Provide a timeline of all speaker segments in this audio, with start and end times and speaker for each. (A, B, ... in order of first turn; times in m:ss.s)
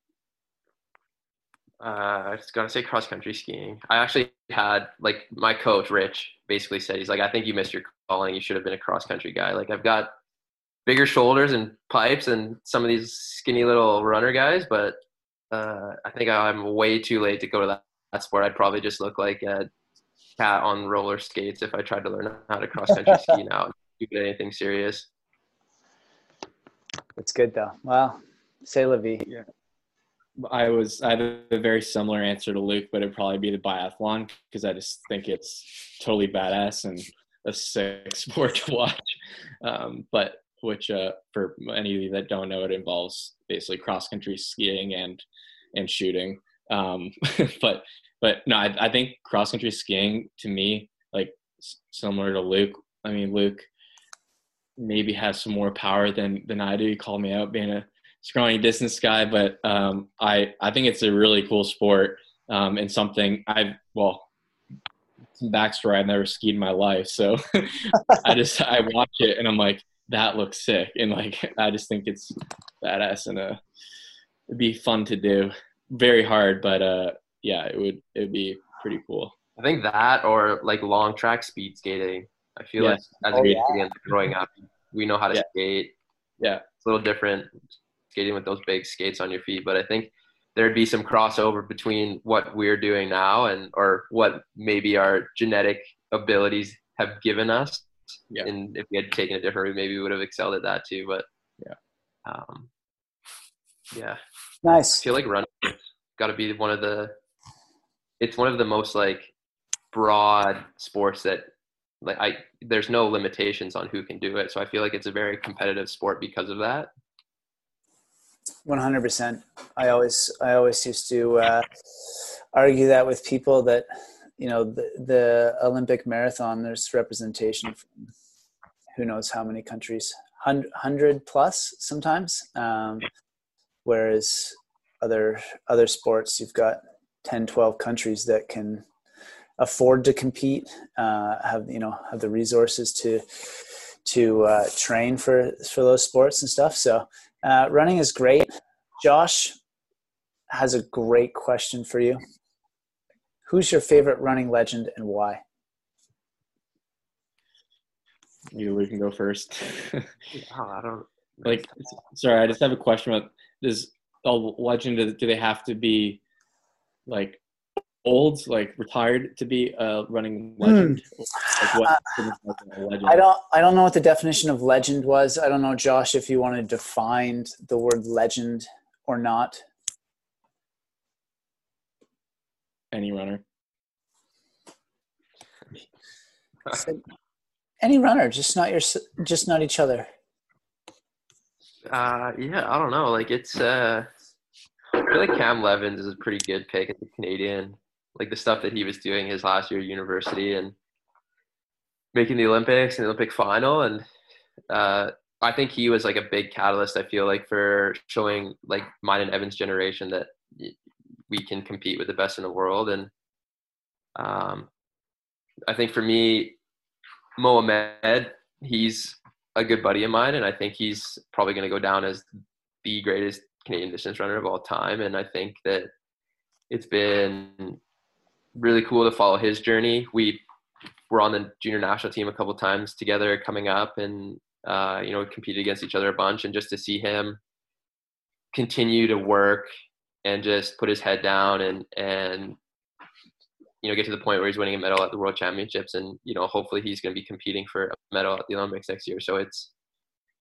0:01.8-0:10.1 A
0:10.9-0:15.0 A
0:15.5-0:19.7 A
0:20.4-0:25.1 A
0:27.2-0:29.3 B
0:30.4-0:53.7 C
0:54.8-1:04.3 C
1:05.4-1:13.6 C
1:14.5-1:19.3 C
1:19.6-1:25.9 A
1:22.8-1:23.6 C
1:23.3-1:23.8 B
1:26.8-1:27.6 A
1:28.1-1:37.9 A
1:38.4-1:41.3 A
1:42.2-1:42.7 A
1:43.9-1:44.2 A
1:44.6-1:45.0 B
1:45.0-1:47.2 A
1:48.2-1:49.3 A
1:49.9-1:51.5 A
1:52.0-1:56.9 A
1:58.7-2:01.7 B
2:02.5-2:03.9 B
2:04.4-2:08.0 B
2:09.0-2:13.1 B
2:13.8-2:18.9 B
2:19.6-2:29.6 B
2:30.5-2:32.2 B
2:33.5-2:35.4 B
2:38.5-2:40.1 C
2:40.3-2:41.9 A
2:41.4-2:46.2 C
2:47.1-2:47.4 C
2:48.0-2:53.2 C
2:50.6-2:52.1 B
2:53.0-2:59.6 B
3:02.9-3:03.4 C
3:06.7-3:07.0 B
3:07.8-3:10.1 B
3:11.9-3:14.1 A
3:15.0-3:20.8 A
3:22.1-3:24.0 A
3:24.7-3:30.8 A
3:31.3-3:33.1 A
3:34.2-3:34.7 A
3:35.7-3:36.6 A
3:37.4-3:42.3 A
3:42.8-3:45.9 A
3:46.7-3:47.8 A
3:48.6-3:50.4 A
3:51.1-3:57.4 A
3:58.5-3:59.7 A
4:00.2-4:02.6 A
4:03.8-4:09.7 A